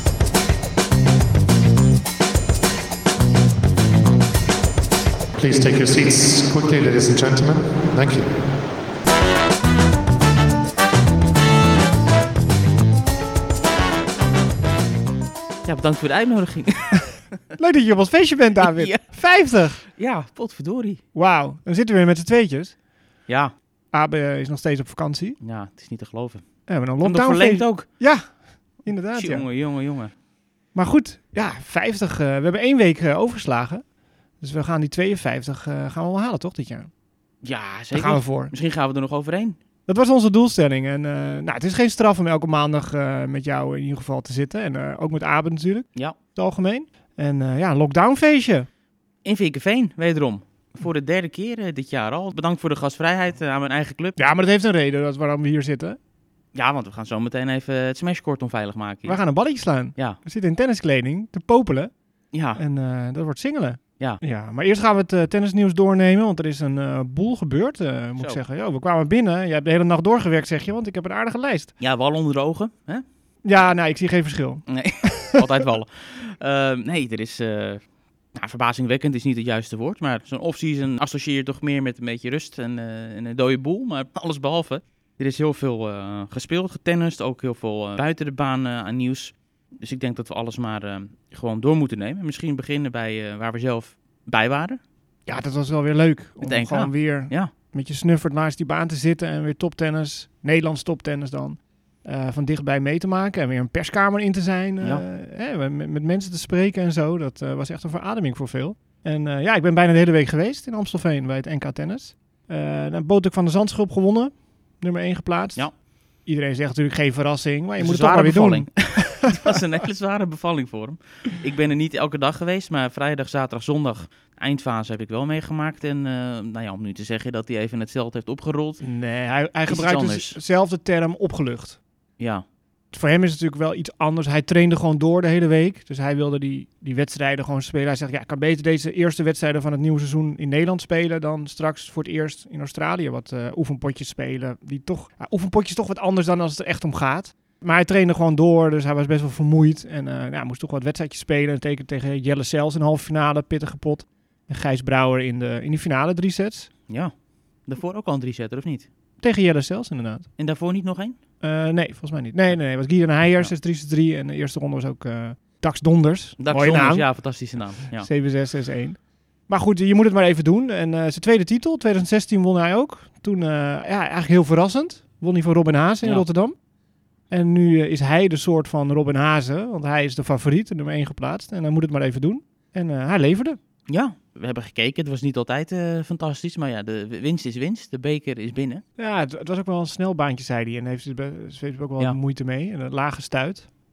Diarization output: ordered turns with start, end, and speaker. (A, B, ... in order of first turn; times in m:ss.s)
0:05.3-0:08.4 A
0:15.6-0:17.3 B
0:17.6-0:19.8 C
0:18.6-0:21.0 B
0:21.1-0:22.8 C
0:23.3-0:23.6 B
0:23.9-0:25.4 C
0:25.4-0:28.2 B
0:26.7-0:29.5 C
0:28.8-0:30.1 B
0:30.7-0:36.9 C
0:37.4-0:39.6 B
0:37.9-0:38.5 C
0:39.8-0:48.7 C
0:49.2-0:54.2 B
0:54.2-0:56.0 C
0:56.5-1:00.2 B
0:59.0-1:02.0 C
1:02.3-1:02.6 B
1:02.5-1:11.7 C
1:11.8-1:13.0 B
1:13.4-1:15.3 C
1:14.7-1:34.8 B
1:35.2-1:59.2 C
1:36.4-1:37.5 B
1:57.8-2:08.9 B
2:08.8-2:11.8 C
2:09.7-2:10.4 B
2:12.2-2:12.4 B
2:12.9-2:36.7 C
2:36.9-2:38.9 B
2:39.2-2:40.3 C
2:40.4-2:41.2 B
2:41.4-2:56.7 C
2:46.4-2:48.1 B
2:56.0-2:56.3 B
2:57.3-3:03.6 C
3:03.9-3:08.8 B
3:09.0-3:13.7 C